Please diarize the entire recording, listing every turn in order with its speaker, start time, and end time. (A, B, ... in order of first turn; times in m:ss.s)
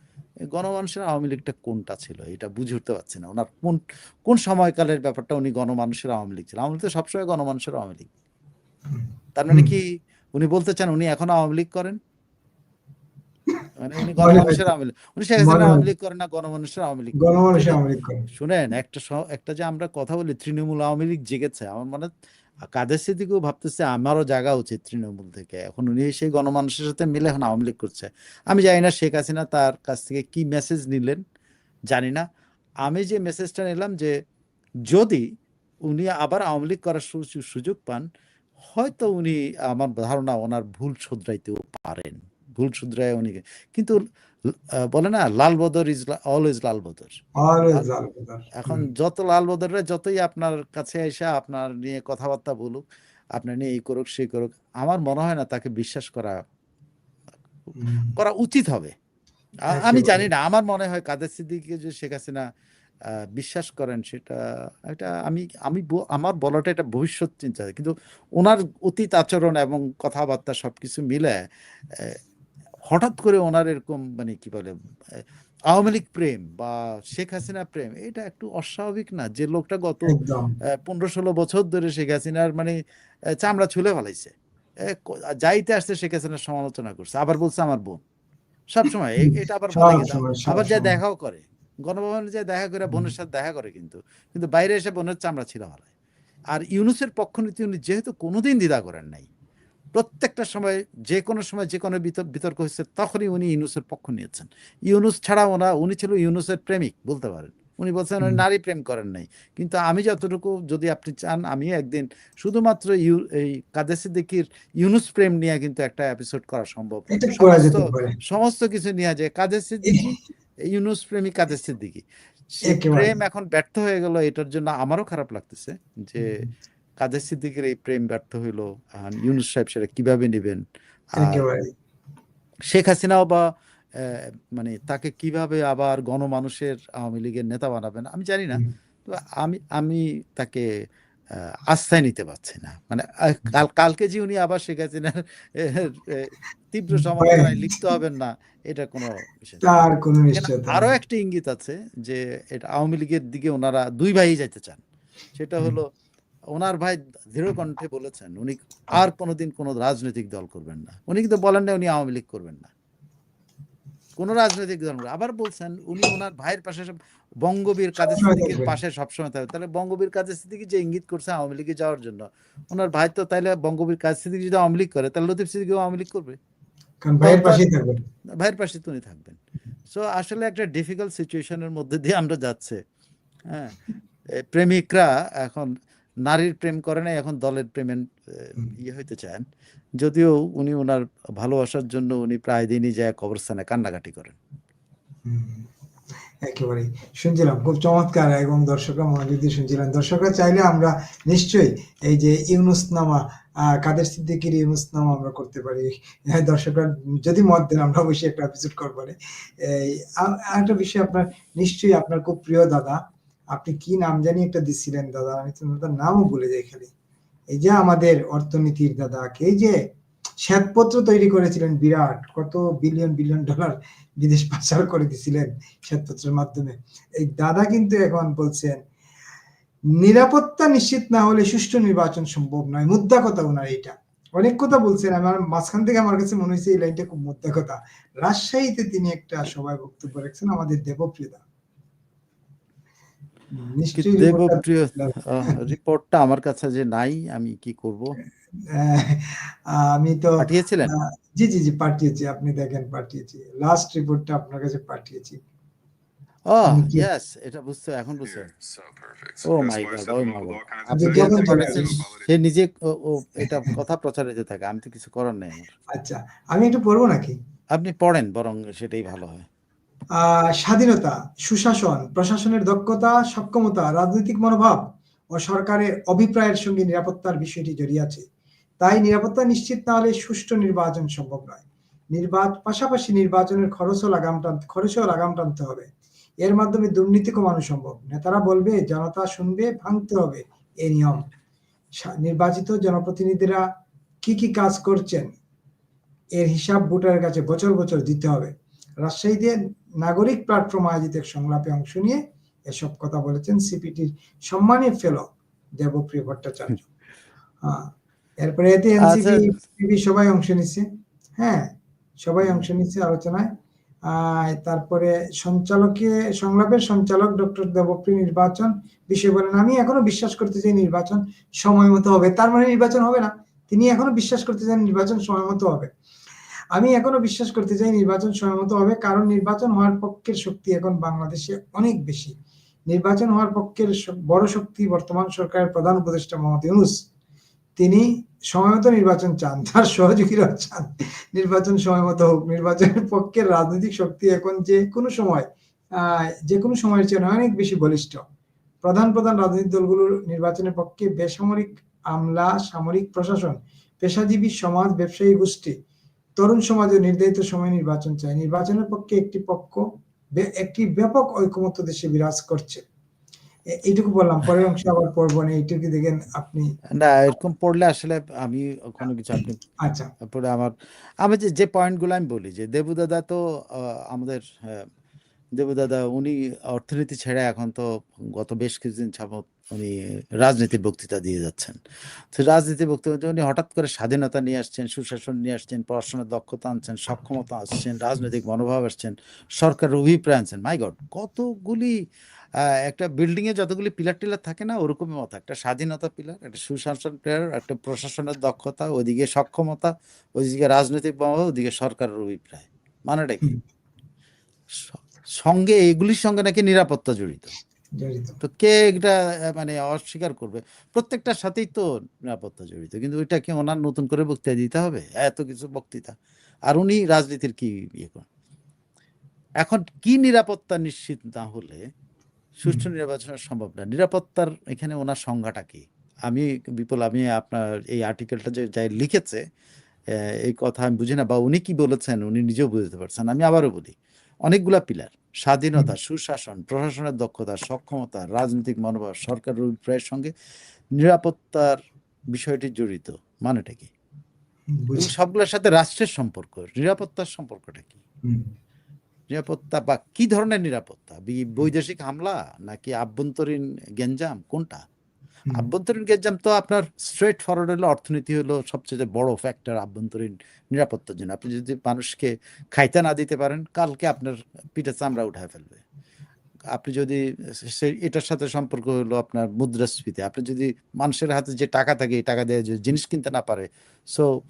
0:00.5-0:08.1 A
0:08.9-0:09.7 B
0:09.4-0:12.0 A
0:13.8-0:17.8 A
0:14.0-0:14.6 B
0:15.4-0:15.8 B
0:17.2-0:18.2 B
0:18.3-0:22.1 A
0:22.7-0:31.2 A
0:31.9-0:32.3 A
0:32.8-0:34.2 A
0:34.9-0:35.3 A
0:35.9-0:38.1 A
0:38.7-0:47.9 A
0:47.4-0:48.8 B
0:48.6-0:52.8 A
0:53.4-0:56.4 A
0:57.8-0:58.1 B
0:58.1-0:59.0 A
0:59.7-1:02.5 A
0:59.7-1:00.3 B
1:03.1-1:11.4 A
1:11.9-1:12.2 A
1:12.9-1:22.8 A
1:20.1-1:20.5 B
1:23.4-1:28.0 A
1:28.7-1:35.9 A
1:29.2-1:30.9 B
1:36.5-1:39.3 A
1:40.0-2:00.2 A
1:57.1-1:58.2 B
2:00.7-2:02.0 A
2:02.6-2:06.4 A
2:02.7-2:03.1 B
2:06.2-2:06.4 B
2:07.0-2:10.6 A
2:11.2-2:11.4 A
2:11.2-2:11.7 B
2:12.7-2:13.5 A
2:14.0-2:20.6 A
2:21.4-2:34.8 A
2:27.2-2:27.5 B
2:29.6-2:30.9 B
2:35.4-2:35.9 A
2:36.5-2:42.7 A
2:44.2-2:56.4 A
2:48.0-2:48.7 B
2:57.0-2:58.0 B
2:57.2-2:57.7 A
2:58.4-3:02.8 A
3:03.5-3:05.7 A
3:06.2-3:09.4 A
3:10.0-3:14.4 A
3:15.2-3:15.7 B
3:16.4-3:33.0 B
3:33.5-3:36.9 B
3:37.5-3:39.8 B
3:40.4-3:48.8 B
3:50.0-4:01.4 B
4:03.5-4:05.6 B
4:04.0-4:08.2 A
4:08.7-4:15.4 B
4:10.4-4:10.9 A
4:16.5-4:18.5 A
4:16.7-4:17.1 B
4:18.2-4:22.3 C
4:19.4-4:25.7 A
4:20.9-4:22.0 B
4:23.4-4:23.8 B
4:25.9-4:27.4 B
4:27.7-4:29.5 A
4:30.2-4:38.2 B
4:38.8-4:45.9 B
4:46.4-4:51.3 B
4:52.0-4:53.6 B
4:54.2-4:55.3 B
4:56.4-5:06.9 B
5:07.6-5:10.9 B
5:09.0-5:09.5 A
5:11.4-5:13.5 B
5:14.1-5:25.9 B
5:26.7-5:32.4 B
5:32.9-5:37.0 B
5:37.8-5:48.2 B
5:48.8-5:55.8 B
5:56.4-5:59.8 B
6:00.4-6:02.8 B
6:03.8-6:06.7 B
6:06.9-6:09.7 A
6:09.8-6:10.1 B
6:10.2-6:14.9 A
6:15.6-6:21.8 A
6:22.3-6:32.0 A
6:32.6-6:43.5 A
6:44.8-6:47.5 A
6:48.0-6:48.4 B
6:48.4-6:56.2 A
6:56.7-6:58.3 A
6:59.6-7:01.8 A
7:02.6-7:09.4 A
7:10.1-7:20.3 A
7:21.0-7:21.8 A
7:22.3-7:23.9 A
7:24.7-7:25.1 B
7:25.0-7:28.0 A
7:29.3-7:34.8 A
7:35.5-7:45.8 A
7:46.7-7:54.3 A